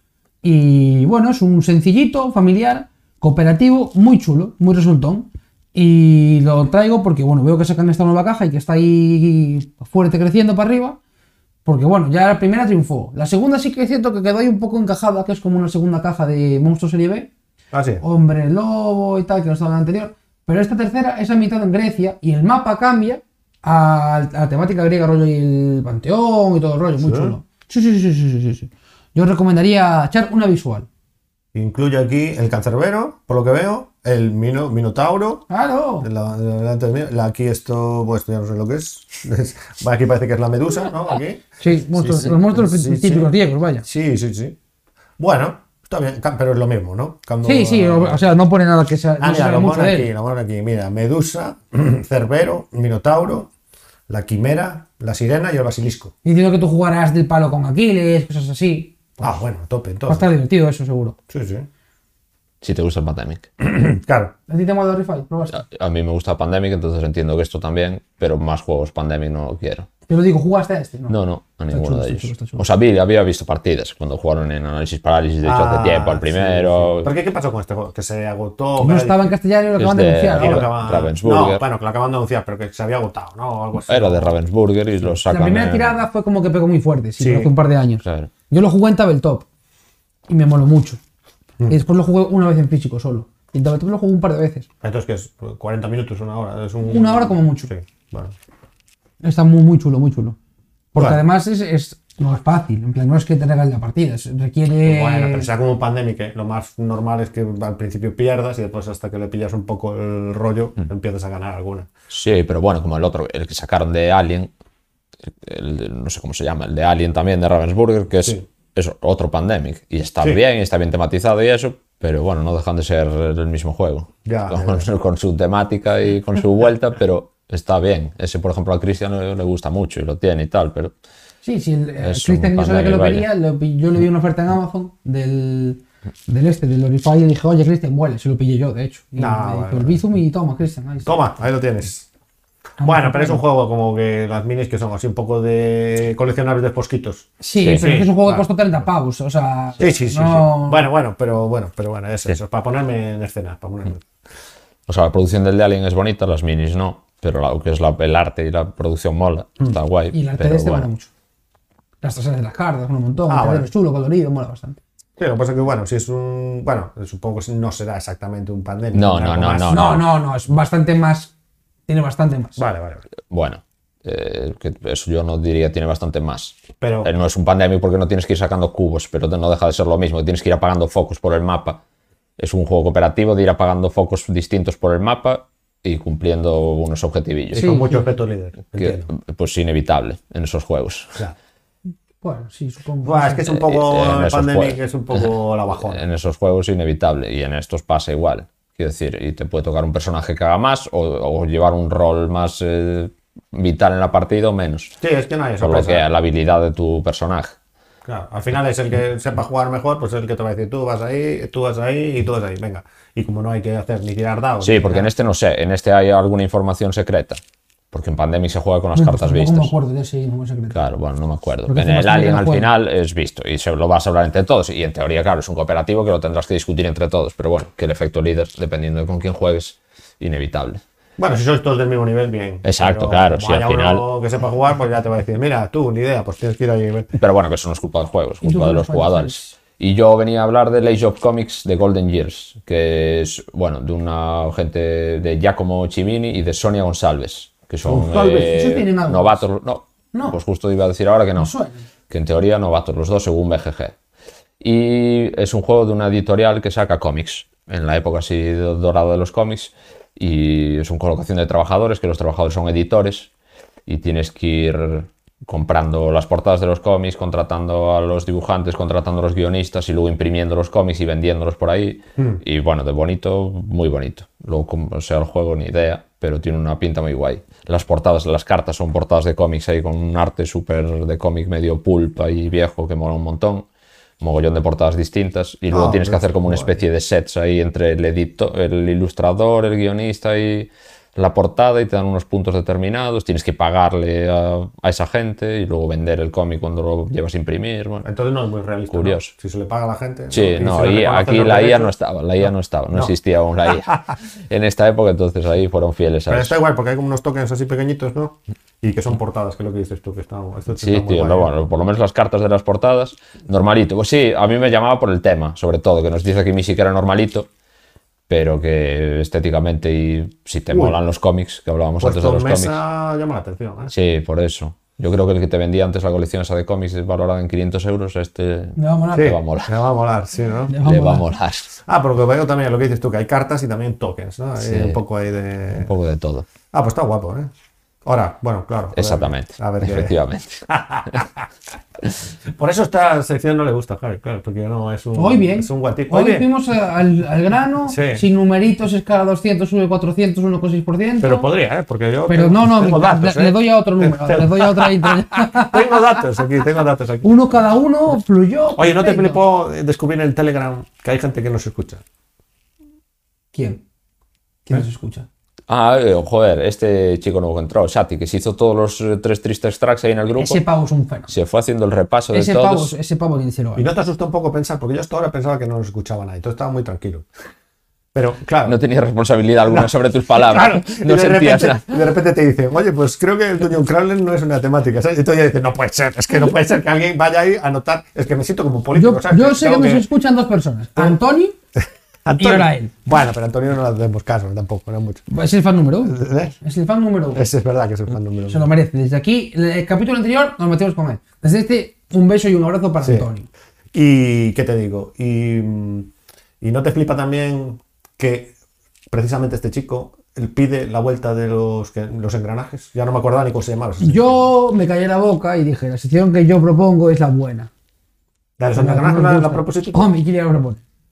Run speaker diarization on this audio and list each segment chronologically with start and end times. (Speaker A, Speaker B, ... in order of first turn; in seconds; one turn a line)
Speaker A: 0.4-11.0
Speaker A: 11.6-17.3
Speaker B: 17.7-18.0
Speaker A: 18.0-30.9
Speaker B: 27.0-27.3
Speaker B: 31.5-35.5
Speaker A: 35.5-36.1
Speaker B: 36.0-44.5
Speaker A: 41.6-43.8
Speaker B: 45.2-48.2
Speaker A: 47.4-50.1
Speaker B: 49.2-53.5
Speaker B: 54.1-56.1
Speaker A: 56.2-59.3
Speaker B: 59.2-60.3
Speaker A: 60.1-61.1
Speaker B: 61.3-61.7
Speaker C: 62.6-63.5
Speaker B: 63.6-64.3
Speaker A: 64.5-65.6
Speaker C: 65.5-69.9
Speaker A: 70.1-71.2
Speaker C: 71.1-77.1
Speaker A: 71.7-72.7
Speaker B: 75.4-79.3
Speaker A: 78.8-80.7
Speaker C: 79.8-81.6
Speaker B: 80.3-84.4
Speaker C: 83.9-86.0
Speaker A: 85.3-89.4
Speaker B: 87.2-87.5
Speaker C: 88.0-88.3
Speaker A: 90.3-91.0
Speaker A: 91.7-94.7
Speaker B: 94.8-98.3
Speaker A: 96.8-97.7
Speaker A: 99.2-100.4
Speaker A: 100.9-105.5
Speaker B: 100.9-101.2
Speaker B: 104.8-111.9
Speaker C: 112.1-114.5
Speaker C: 115.3-130.9
Speaker B: 124.2-124.9
Speaker A: 131.4-141.1
Speaker C: 132.0-133.2
Speaker B: 139.2-140.0
Speaker B: 141.0-142.1
Speaker A: 142.8-143.4
Speaker B: 142.8-148.5
Speaker A: 147.4-150.9
Speaker C: 147.6-147.9
Speaker B: 149.8-154.0
Speaker C: 154.9-160.9
Speaker A: 160.1-161.1
Speaker A: 162.0-164.8
Speaker B: 163.3-163.7
Speaker B: 165.2-169.9
Speaker C: 168.9-170.0
Speaker A: 169.7-171.3
Speaker A: 171.9-172.6
Speaker B: 172.6-173.0
Speaker C: 173.3-181.8
Speaker B: 176.8-177.1
Speaker C: 182.4-187.7
Speaker B: 187.5-189.1
Speaker A: 187.6-188.0
Speaker C: 188.8-191.2
Speaker A: 192.2-193.5
Speaker B: 193.0-196.0
Speaker C: 193.4-204.9
Speaker B: 205.0-206.1
Speaker C: 205.6-207.5
Speaker B: 208.1-215.1
Speaker C: 214.6-217.4
Speaker C: 217.9-219.7
Speaker A: 218.9-220.8
Speaker C: 220.7-230.8
Speaker A: 221.7-222.7
Speaker B: 231.2-237.2
Speaker C: 232.6-234.0
Speaker C: 237.2-251.5
Speaker A: 238.4-239.5
Speaker A: 247.8-249.4
Speaker A: 250.1-250.4
Speaker A: 251.4-251.8
Speaker C: 252.1-253.9
Speaker C: 254.6-263.3
Speaker C: 263.9-283.6
Speaker C: 284.2-298.0
Speaker B: 285.7-286.8
Speaker B: 298.0-301.9
Speaker C: 298.9-299.3
Speaker C: 300.3-306.5
Speaker B: 306.3-311.5
Speaker C: 310.7-317.5
Speaker C: 318.3-322.8
Speaker B: 320.7-321.0
Speaker B: 322.0-323.9
Speaker C: 323.9-329.7
Speaker A: 328.8-329.3
Speaker B: 329.1-330.8
Speaker A: 330.7-331.2
Speaker C: 330.8-331.7
Speaker B: 331.8-335.9
Speaker C: 334.6-335.0
Speaker C: 335.7-336.5
Speaker B: 336.7-337.5
Speaker B: 338.0-340.1
Speaker C: 338.9-340.6
Speaker B: 340.7-341.5
Speaker B: 342.6-346.5
Speaker A: 345.1-351.5
Speaker B: 347.9-348.2
Speaker B: 351.2-357.3
Speaker A: 352.3-356.1
Speaker A: 357.2-359.4
Speaker B: 358.8-362.0
Speaker A: 363.5-363.8
Speaker A: 364.6-365.3
Speaker C: 365.7-370.6
Speaker A: 370.3-371.3
Speaker C: 371.3-372.9
Speaker A: 372.3-373.9
Speaker B: 373.7-377.3
Speaker B: 378.1-378.8
Speaker C: 378.6-382.0
Speaker B: 379.7-390.1
Speaker A: 388.9-391.5
Speaker B: 391.8-395.3
Speaker A: 392.4-392.9
Speaker A: 395.3-397.4
Speaker B: 396.1-396.5
Speaker B: 397.3-398.7
Speaker A: 398.5-403.5
Speaker B: 403.0-403.3
Speaker B: 403.9-408.5
Speaker B: 409.1-414.5
Speaker A: 414.0-417.7
Speaker B: 418.6-420.1
Speaker A: 418.7-420.8